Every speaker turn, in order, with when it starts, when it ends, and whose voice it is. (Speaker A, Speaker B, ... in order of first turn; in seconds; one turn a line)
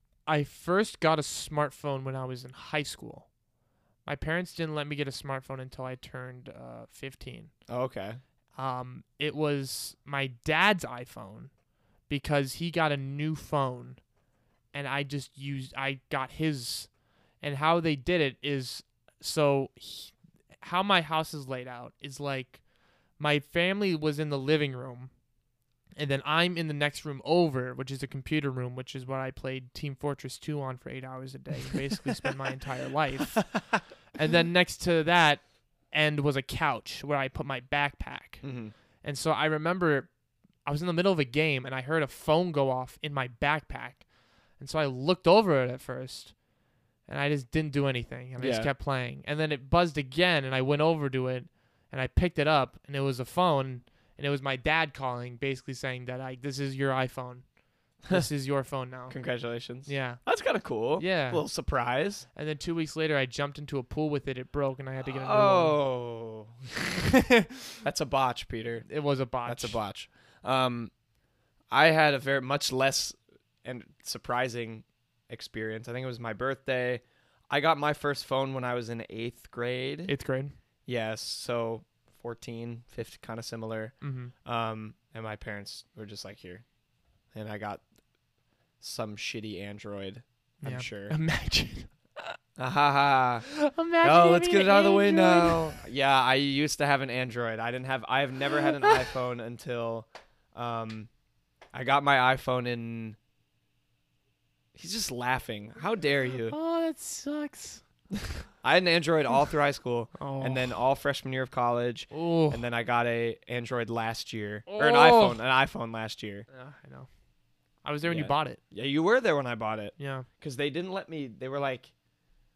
Speaker A: 0.3-3.3
Speaker A: 4.1-7.5
Speaker B: 7.7-8.2
Speaker A: 8.6-11.5
Speaker A: 12.1-14.0
Speaker A: 14.7-16.9
Speaker A: 17.4-22.6
Speaker A: 23.2-25.1
Speaker A: 26.0-33.6
Speaker A: 34.1-38.4
Speaker B: 38.4-38.7
Speaker A: 39.0-40.1
Speaker A: 40.6-44.0
Speaker A: 44.6-46.3
Speaker A: 47.1-57.5
Speaker B: 48.4-48.7
Speaker A: 58.1-59.1
Speaker B: 59.1-62.3
Speaker A: 59.9-60.2
Speaker A: 61.0-61.4
Speaker A: 62.3-65.8
Speaker B: 65.0-66.7
Speaker A: 67.1-67.7
Speaker B: 67.8-68.9
Speaker A: 68.9-69.8
Speaker B: 69.5-70.9
Speaker B: 71.7-80.1
Speaker A: 80.1-80.6
Speaker B: 80.9-83.9
Speaker A: 84.0-84.3
Speaker B: 84.5-86.6
Speaker B: 87.3-87.8
Speaker B: 88.8-91.1
Speaker A: 90.6-92.3
Speaker B: 92.6-93.5
Speaker A: 93.5-95.8
Speaker B: 94.0-101.1
Speaker A: 98.6-99.1
Speaker B: 101.7-103.2
Speaker B: 104.8-106.6
Speaker A: 106.5-107.8
Speaker B: 108.6-116.5
Speaker A: 110.2-110.8
Speaker A: 112.1-112.6
Speaker A: 114.7-115.4
Speaker A: 116.5-117.1
Speaker A: 117.8-118.6
Speaker B: 118.1-121.9
Speaker A: 120.0-120.3